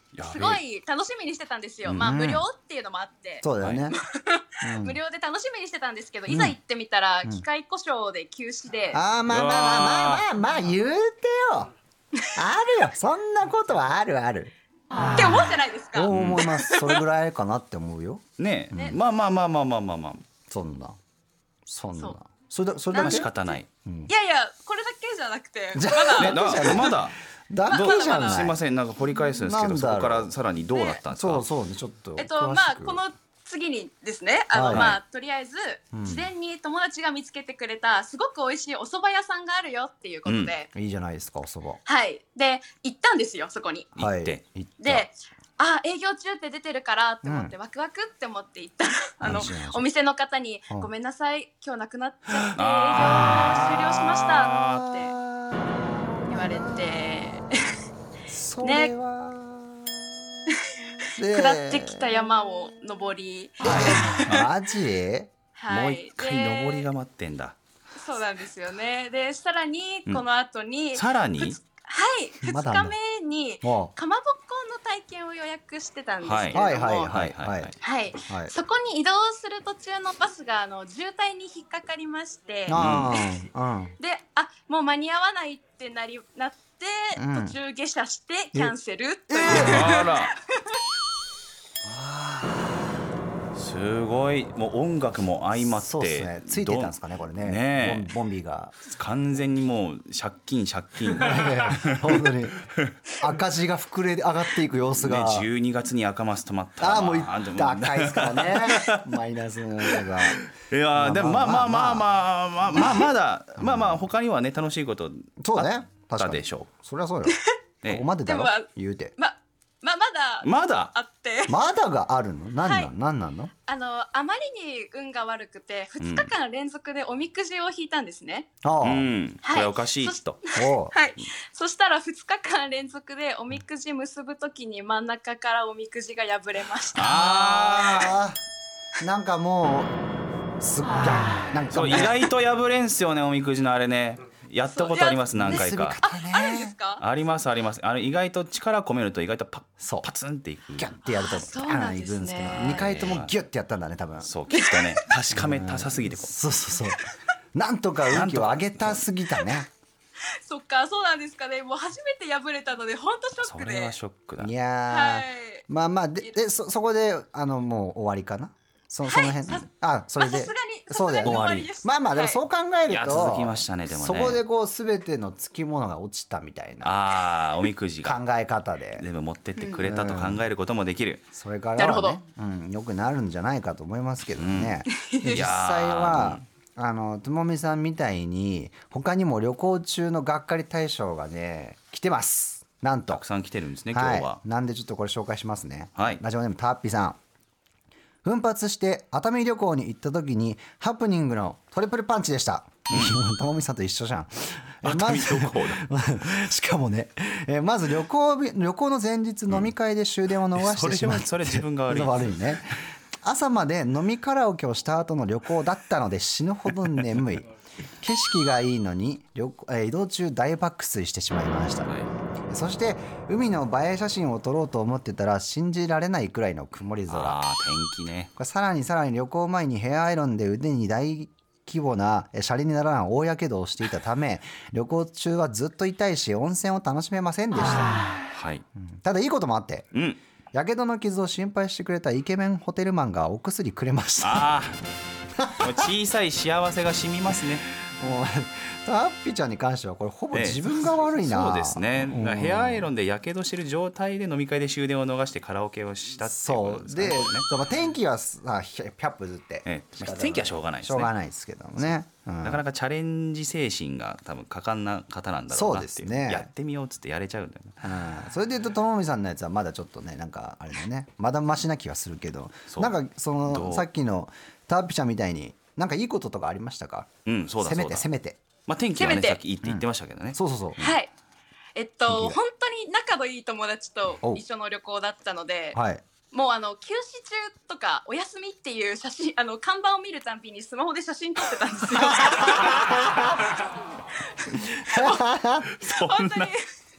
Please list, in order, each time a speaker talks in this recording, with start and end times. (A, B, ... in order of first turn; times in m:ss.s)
0:00.1-0:00.6 A
0:00.2-0:09.0 B
0:01.8-0:02.2 A
0:02.0-0:02.4 C
0:03.4-0:04.0 C
0:03.6-0:03.9 A
0:04.6-0:05.0 C
0:06.3-0:06.5 C
0:08.9-0:11.7 C
0:09.3-0:10.3 A
0:12.3-0:14.5 C
0:15.1-0:17.0 B
0:15.9-0:19.0 C
0:16.1-0:16.4 A
0:18.4-0:20.2 A
0:20.5-0:21.0 C
0:21.6-0:23.3 C
0:22.9-0:26.9 B
0:23.0-0:23.7 A
0:23.8-0:24.1 C
0:25.7-0:28.6 C
0:26.2-0:27.2 A
0:27.7-0:28.5 B
0:27.7-0:31.4 A
0:29.4-0:30.3 C
0:30.7-0:31.0 B
0:31.1-0:33.0 C
0:32.2-0:40.7 B
0:34.5-0:35.0 C
0:34.7-0:35.0 A
0:35.9-0:36.3 C
0:40.2-0:40.5 A
0:40.7-0:41.8 C
0:41.8-0:43.9 B
0:44.0-0:44.4 A
0:44.0-0:45.1 C
0:44.8-0:55.1 B
0:47.2-0:47.5 C
0:49.2-0:49.8 C
0:52.6-0:54.8 A
0:53.1-0:53.5 C
0:55.0-0:57.2 C
0:56.3-0:57.8 B
0:58.3-1:00.3 C
0:58.6-0:58.9 B
1:00.5-1:04.5 B
1:01.0-1:02.2 C
1:03.6-1:04.2 A
1:03.6-1:06.0 C
1:05.6-1:06.9 B
1:06.1-1:07.6 A
1:07.9-1:17.1 B
1:10.9-1:11.6 A
1:12.4-1:12.9 C
1:13.6-1:13.9 C
1:16.2-1:17.7 A
1:16.5-1:17.7 C
1:17.8-1:23.2 B
1:18.2-1:18.5 C
1:22.7-1:23.9 C
1:22.7-1:23.2 A
1:24.0-1:30.3 B
1:27.1-1:27.6 C
1:29.3-1:30.1 C
1:29.5-1:30.3 A
1:31.8-1:32.8 C
1:33.5-1:38.1 A
1:35.6-1:38.7 C
1:38.8-1:42.2 A
1:41.1-1:45.5 C
1:45.0-1:49.0 A
1:46.8-1:50.4 C
1:49.9-1:56.7 A
1:50.9-1:52.0 C
1:52.7-1:53.0 C
1:53.6-1:54.0 C
1:55.4-1:59.1 C
1:58.2-2:01.6 B
2:00.4-2:00.9 A
2:01.5-2:03.5 C
2:02.6-2:02.9 B
2:03.7-2:08.5 B
2:06.0-2:06.3 A
2:08.6-2:09.1 C
2:08.8-2:10.4 A
2:09.4-2:17.5 B
2:10.6-2:10.9 C
2:17.0-2:18.2 A
2:17.0-2:18.4 C
2:19.0-2:19.9 C
2:20.6-2:22.2 C
2:21.7-2:26.0 A
2:24.7-2:27.0 B
2:25.3-2:26.8 C
2:27.0-2:30.9 A
2:29.8-2:30.1 C
2:30.8-2:34.3 C
2:31.0-2:32.9 B
2:32.6-2:33.3 A
2:34.2-2:36.3 A
2:35.3-2:39.7 C
2:38.1-2:39.0 A
2:40.4-2:43.9 B
2:43.4-2:44.5 A
2:44.4-2:57.0 C
2:44.9-2:45.6 B
2:49.0-2:49.7 B
2:50.2-2:52.4 B
2:51.2-2:51.7 A
2:52.9-2:54.4 A
2:56.8-2:58.2 A
2:58.0-2:59.0 C
2:59.0-3:01.2 A
2:59.8-3:00.4 C
3:01.3-3:13.2 C
3:01.8-3:02.2 B
3:04.4-3:06.4 A
3:05.0-3:05.4 B
3:13.1-3:14.4 A
3:13.9-3:17.2 C
3:18.2-3:37.5 C
3:22.9-3:23.2 A
3:24.8-3:25.9 A
3:30.5-3:32.6 A
3:38.0-3:41.9 C
3:41.8-3:42.1 A
3:42.5-3:47.4 C
3:47.1-3:48.3 A
3:48.4-3:58.0 C
3:58.3-3:58.6 A
3:58.8-3:59.9 C
3:59.9-4:00.2 A
4:00.5-4:04.5 C
4:04.2-4:04.8 A
4:05.4-4:05.9 C
4:05.6-4:07.7 A
4:08.0-4:12.9 C
4:10.3-4:17.5 A
4:16.2-4:22.6 C
4:19.6-4:21.1 A
4:22.4-4:27.9 A
4:25.5-4:26.5 C
4:27.8-4:37.1 C
4:32.7-4:33.9 A
4:37.2-4:38.1 A
4:37.6-4:38.4 C
4:38.6-4:40.4 A
4:39.0-4:39.4 B
4:39.6-4:40.9 C
4:40.8-4:41.1 B
4:41.8-4:45.8 B
4:42.0-4:42.4 C
4:45.7-4:46.0 C
4:46.3-4:53.7 B
4:52.3-4:53.5 C
4:54.3-4:55.2 B
4:54.9-4:55.7 C
4:55.8-4:56.6 B
4:55.8-4:56.5 A